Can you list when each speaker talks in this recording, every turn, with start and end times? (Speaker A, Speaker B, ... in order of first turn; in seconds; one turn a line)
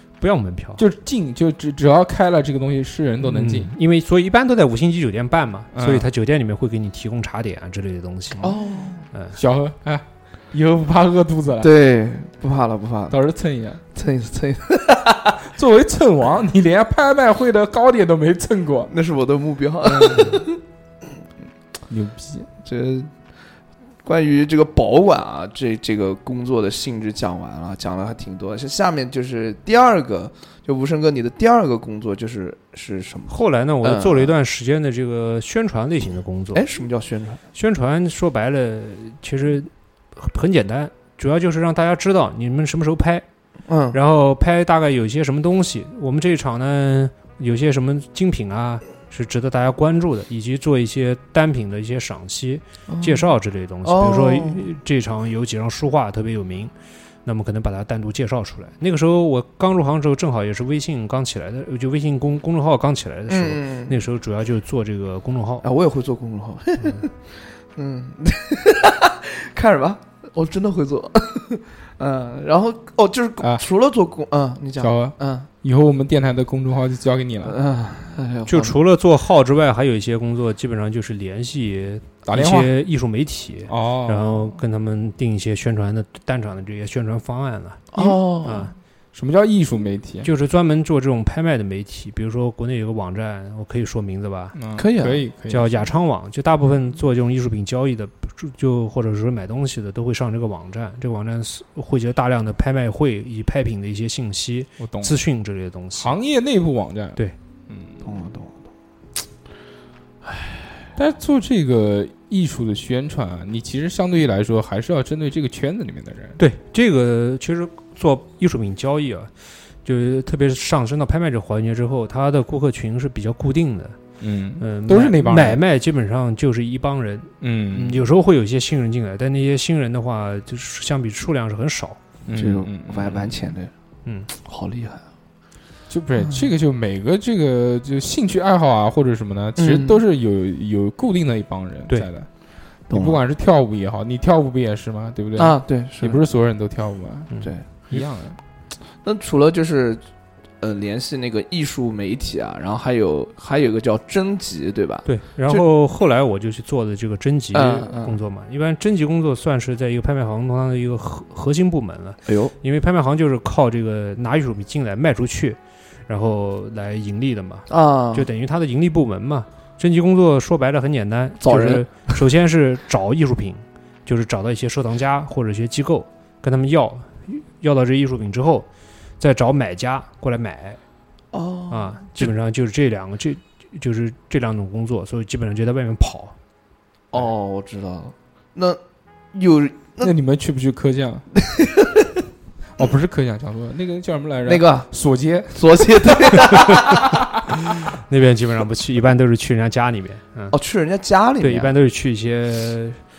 Speaker A: 0.2-0.8
Speaker B: 0.8-3.7
Speaker A: 3.2-8.6
Speaker B: 5.7-6.1
Speaker C: 8.4-9.1
Speaker B: 9.3-11.7
Speaker C: 11.6-13.2
Speaker B: 13.1-13.8
Speaker C: 13.9-15.4
Speaker B: 15.4-18.9
Speaker C: 18.9-20.6
Speaker B: 19.9-20.4
Speaker B: 21.9-22.5
Speaker C: 22.6-23.1
Speaker C: 24.0-34.4
Speaker A: 33.3-36.6
Speaker C: 36.5-37.4
Speaker A: 37.5-43.2
Speaker C: 43.7-44.0
Speaker A: 43.9-56.7
Speaker C: 52.9-53.3
Speaker C: 53.8-54.6
Speaker A: 57.2-65.6
Speaker C: 63.3-64.0
Speaker C: 65.6-67.1
Speaker C: 67.8-75.5
Speaker B: 74.8-77.5
Speaker C: 77.4-78.7
Speaker A: 78.5-88.7
Speaker B: 82.2-82.7
Speaker B: 83.7-84.5
Speaker C: 87.9-88.7
Speaker B: 89.1-90.3
Speaker A: 90.2-94.6
Speaker B: 94.5-95.9
Speaker C: 94.8-95.2
Speaker A: 95.5-106.2
Speaker B: 104.8-105.2
Speaker B: 106.0-108.0
Speaker C: 108.0-108.5
Speaker C: 110.2-110.6
Speaker B: 111.0-116.4
Speaker A: 116.4-119.3
Speaker A: 119.8-124.0
Speaker B: 124.2-125.6
Speaker A: 124.6-132.0
Speaker B: 127.4-128.1
Speaker B: 132.2-133.4
Speaker C: 132.3-133.7
Speaker C: 134.3-135.0
Speaker B: 135.9-142.3
Speaker C: 139.6-140.0
Speaker C: 142.9-143.2
Speaker B: 142.9-147.3
Speaker C: 145.4-146.2
Speaker A: 147.3-148.0
Speaker B: 147.9-148.4
Speaker C: 149.0-150.0
Speaker C: 150.6-155.6
Speaker A: 155.1-178.7
Speaker C: 157.5-158.2
Speaker C: 162.3-162.5
Speaker C: 167.7-168.3
Speaker C: 171.4-172.2
Speaker A: 179.2-180.8
Speaker C: 181.3-182.3
Speaker A: 181.7-186.3
Speaker C: 187.1-188.8
Speaker C: 189.3-190.1
Speaker B: 190.0-191.3
Speaker C: 191.3-192.2
Speaker B: 192.8-197.3
Speaker C: 194.4-194.9
Speaker C: 195.5-197.2
Speaker A: 197.8-200.5
Speaker C: 200.5-201.7
Speaker A: 201.4-203.0